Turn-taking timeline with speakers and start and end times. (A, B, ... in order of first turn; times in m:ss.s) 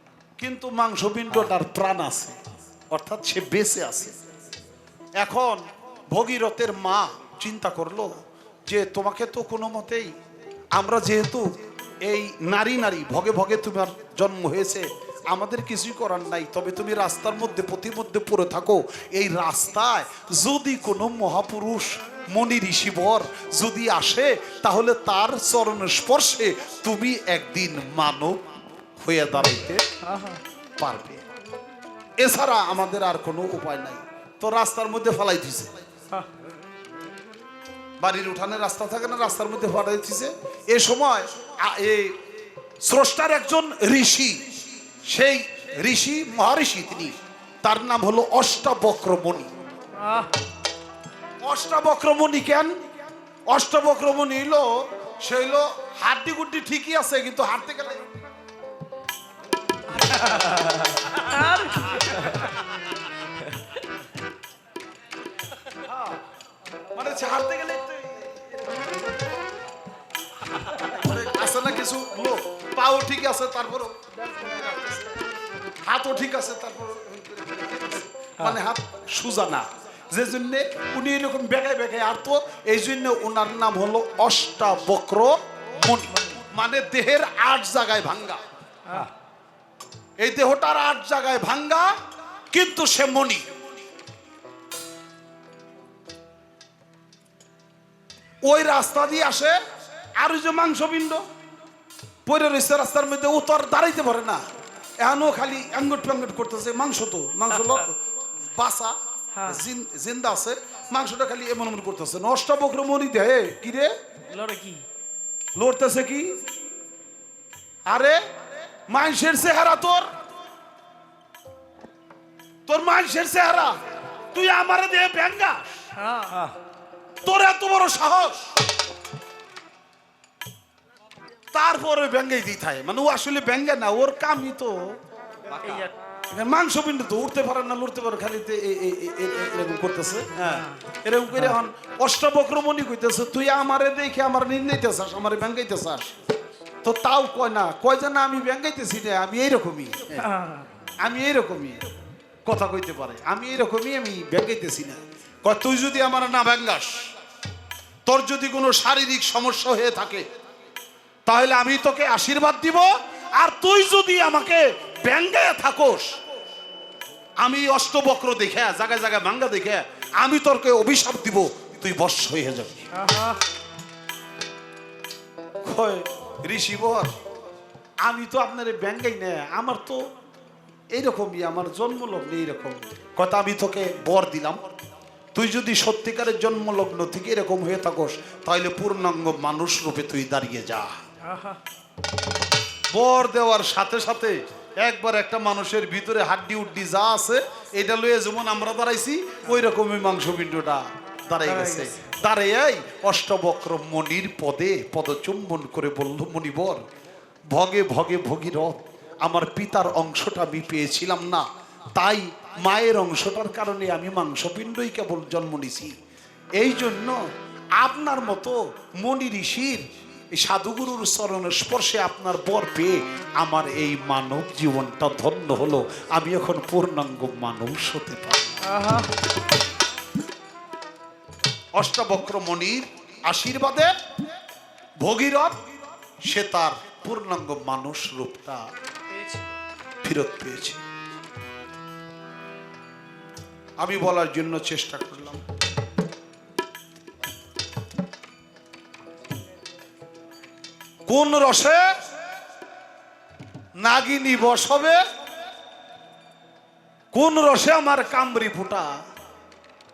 0:00.4-0:04.2 A
0:05.2-0:10.1 A
0:10.7-0:11.5 A
0:12.0-0:29.9 A
0:30.0-0:30.4 B
0:30.8-0:31.2 A
0:32.2-0:35.7 A
0:38.0-0:42.2 A
0:42.8-0:49.5 A
0:49.9-0:50.3 B
0:51.4-0:52.8 A
0:53.5-0:58.1 A
1:00.3-1:02.5 B
1:05.8-1:06.2 A
1:06.9-1:08.3 A
1:10.6-1:15.0 A
1:15.7-1:28.4 A
1:26.1-1:26.4 B
1:28.9-1:29.1 B
1:30.2-1:32.0 A
1:32.5-1:33.4 A
1:38.4-1:39.6 A
1:40.2-1:41.2 A
1:42.3-1:44.4 A
1:45.0-1:53.9 A
1:49.3-1:49.6 B
1:54.3-1:54.9 B
1:55.6-1:56.4 A
1:57.9-1:58.2 A
1:58.9-2:00.1 A
2:02.7-2:03.8 A
2:04.3-2:05.9 A
2:06.0-2:06.6 B
2:07.2-2:08.6 A
2:11.5-2:15.0 A
2:15.6-2:15.9 B
2:16.3-2:26.1 A
2:20.4-2:20.8 B
2:26.8-2:30.3 A
2:30.2-2:30.7 B
2:31.0-2:31.8 A
2:32.4-2:37.1 A
2:38.1-2:40.2 A
2:41.3-2:46.2 A
2:47.4-2:52.9 A
2:52.9-2:53.4 B
2:55.6-2:57.2 A
2:58.0-3:00.1 A
3:00.9-3:04.6 A
3:05.3-3:11.0 A
3:11.2-3:11.6 B
3:12.9-3:26.9 A
3:21.4-3:22.1 B
3:27.5-3:35.9 A
3:36.6-3:37.2 A
3:37.8-3:48.7 A
3:48.6-3:49.1 B
3:51.8-3:53.9 A
3:55.0-3:55.6 A
3:56.3-3:58.6 A
3:59.1-3:59.5 B
4:00.0-4:00.8 A
4:03.8-4:05.4 A
4:11.1-4:11.8 A
4:13.8-4:15.0 A
4:17.1-4:18.9 A